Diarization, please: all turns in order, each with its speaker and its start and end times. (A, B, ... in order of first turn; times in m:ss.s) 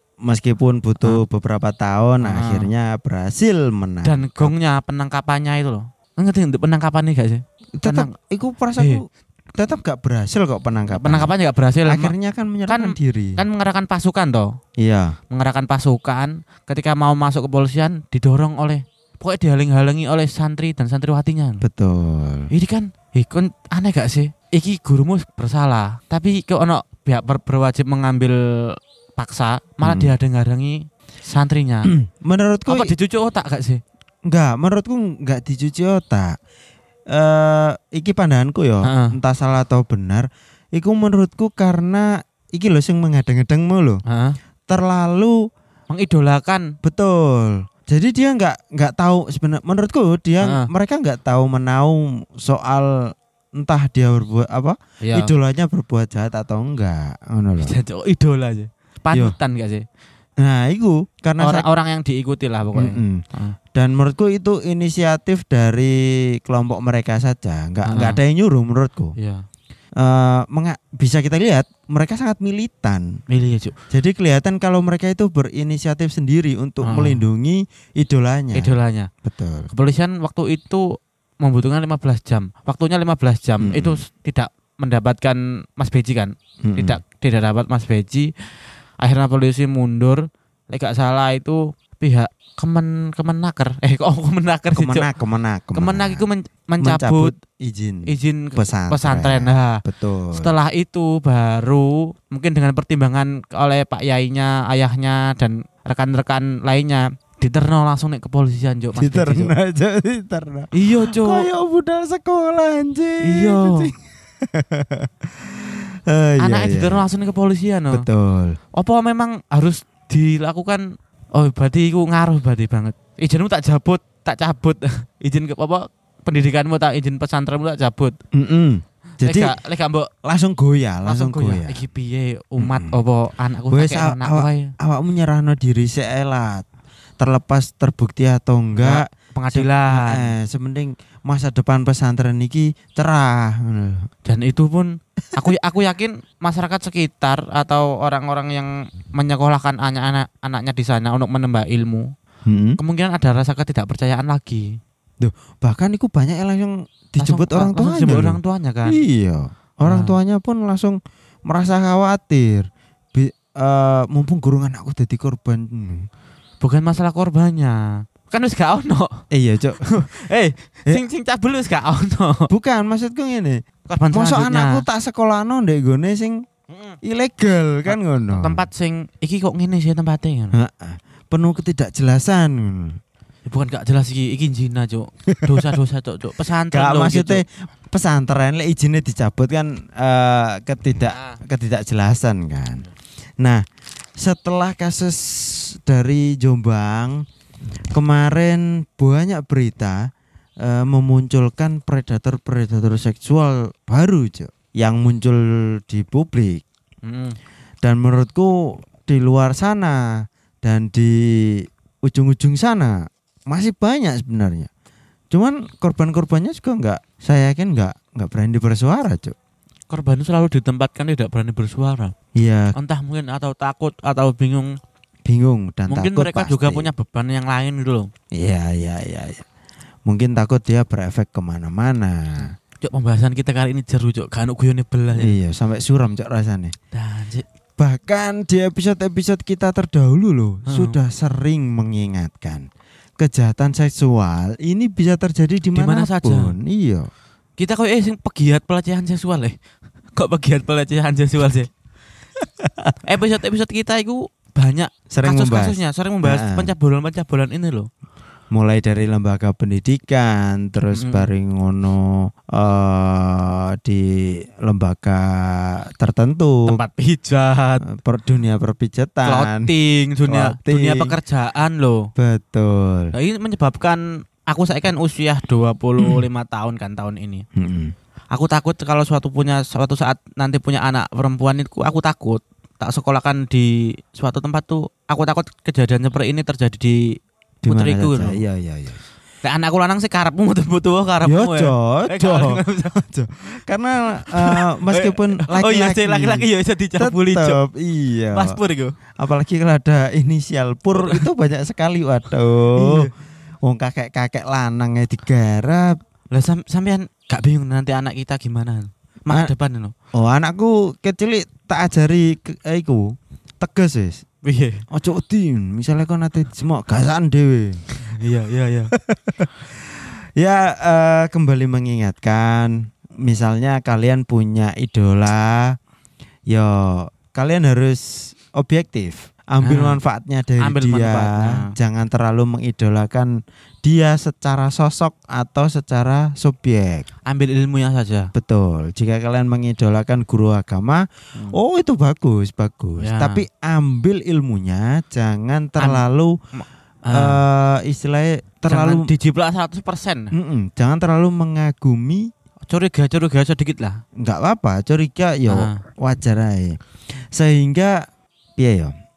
0:00.2-0:04.5 A
0:02.2-0:02.7 B
0:04.0-0:08.1 B
0:07.8-0:09.0 A
0:09.6-0:11.3 A
0:10.9-0:12.1 B
0:11.9-0:13.4 A
0:12.7-0:14.6 B
0:14.8-0:15.2 A
0:15.3-0:21.6 B
0:21.6-0:22.5 A
0:22.5-0:31.9 B
0:29.8-0:30.1 A
0:31.9-0:32.9 A
0:32.7-0:33.8 B
0:34.3-0:36.4 A
0:37.1-0:44.0 A
0:38.8-0:39.1 B
0:44.1-0:44.4 B
0:44.7-0:45.4 A
0:45.9-0:46.8 B
0:46.8-0:57.8 A
0:50.4-0:50.7 B
0:55.0-0:55.3 B
0:57.6-0:59.9 B
1:00.4-1:01.7 A
1:01.4-1:03.6 B
1:02.8-1:03.2 A
1:03.8-1:09.1 A
1:07.9-1:08.2 B
1:09.2-1:09.4 B
1:10.0-1:13.1 A
1:13.3-1:13.7 B
1:13.9-1:19.7 A
1:16.8-1:17.2 B
1:18.5-1:19.1 B
1:19.7-1:20.8 B
1:21.4-1:28.3 B
1:23.6-1:24.0 A
1:26.6-1:27.0 A
1:29.0-1:35.1 B
1:34.8-1:36.2 A
1:35.7-1:37.3 B
1:36.8-1:40.5 A
1:38.0-1:49.5 B
1:49.0-1:57.1 A
1:50.7-1:51.5 B
1:53.2-1:53.9 B
1:56.4-1:58.0 B
1:57.9-1:58.6 A
1:58.7-2:08.2 B
2:08.3-2:09.5 A
2:09.2-2:10.1 B
2:10.2-2:11.8 A
2:11.1-2:14.7 B
2:12.6-2:12.9 A
2:13.7-2:16.6 A
2:17.2-2:24.0 A
2:18.8-2:20.3 B
2:24.2-2:32.1 B
2:32.5-2:32.8 A
2:32.8-2:34.8 B
2:35.2-2:46.1 A
2:37.2-2:39.0 B
2:39.8-2:40.2 B
2:46.6-2:49.2 B
2:49.3-2:49.8 A
2:49.8-2:52.5 B
2:52.5-2:53.6 A
2:53.9-2:54.8 B
2:54.1-2:56.4 A
2:56.7-2:57.0 B
2:57.0-2:58.6 A
2:57.9-3:00.5 B
3:00.5-3:03.0 A
3:03.5-3:07.4 B
3:05.3-3:05.7 A
3:06.7-3:12.8 A
3:14.2-3:17.2 A
3:17.9-3:20.0 A
3:20.6-3:26.6 A
3:27.0-3:27.4 B
3:27.8-3:30.1 A
3:30.6-3:34.7 A
3:35.3-3:39.4 A
3:39.9-3:42.1 B
3:42.4-3:42.7 A
3:42.8-3:44.8 B
3:45.2-3:46.9 A
3:45.9-3:48.1 B
3:48.4-3:49.4 A
3:50.1-3:52.5 A
3:52.8-3:55.4 B
3:55.1-3:56.7 A
3:56.9-3:57.4 B
3:57.8-4:02.7 A
4:00.7-4:01.0 B
4:03.2-4:07.1 A
4:05.7-4:06.5 B
4:07.6-4:09.6 B
4:10.1-4:11.7 B
4:12.7-4:12.9 A
4:13.0-4:17.9 B
4:15.1-4:16.7 A
4:18.5-4:26.8 A
4:20.9-4:21.3 B
4:26.7-4:27.8 B
4:27.8-4:29.7 A
4:29.2-4:32.1 B
4:30.3-4:31.1 A
4:32.2-4:33.1 A
4:33.1-4:37.4 B
4:37.6-4:37.9 A
4:38.3-4:48.4 B
4:47.6-4:49.0 A
4:49.4-4:53.0 B
4:51.2-4:56.5 A
4:54.2-4:57.6 B
4:57.0-4:58.6 A
4:58.3-4:59.0 B
4:59.2-5:03.1 A
5:01.0-5:01.2 B
5:02.8-5:03.1 B
5:03.6-5:06.0 A
5:06.3-5:09.9 B
5:10.1-5:14.2 A
5:14.4-5:14.8 B
5:14.9-5:17.8 A
5:17.9-5:18.9 B
5:18.9-5:19.8 A
5:20.4-5:25.8 A
5:26.5-5:33.3 A
5:29.6-5:30.0 B
5:30.6-5:31.7 B
5:33.8-5:37.0 A
5:37.2-5:38.3 B
5:38.3-5:46.4 A
5:43.0-5:43.4 B
5:46.6-5:47.4 B
5:47.1-5:49.1 A
5:48.7-5:50.3 B
5:50.3-5:52.3 A
5:52.7-5:54.0 B
5:54.2-5:56.8 A
5:55.5-5:55.8 B
5:57.3-5:58.0 A
5:58.6-5:58.9 A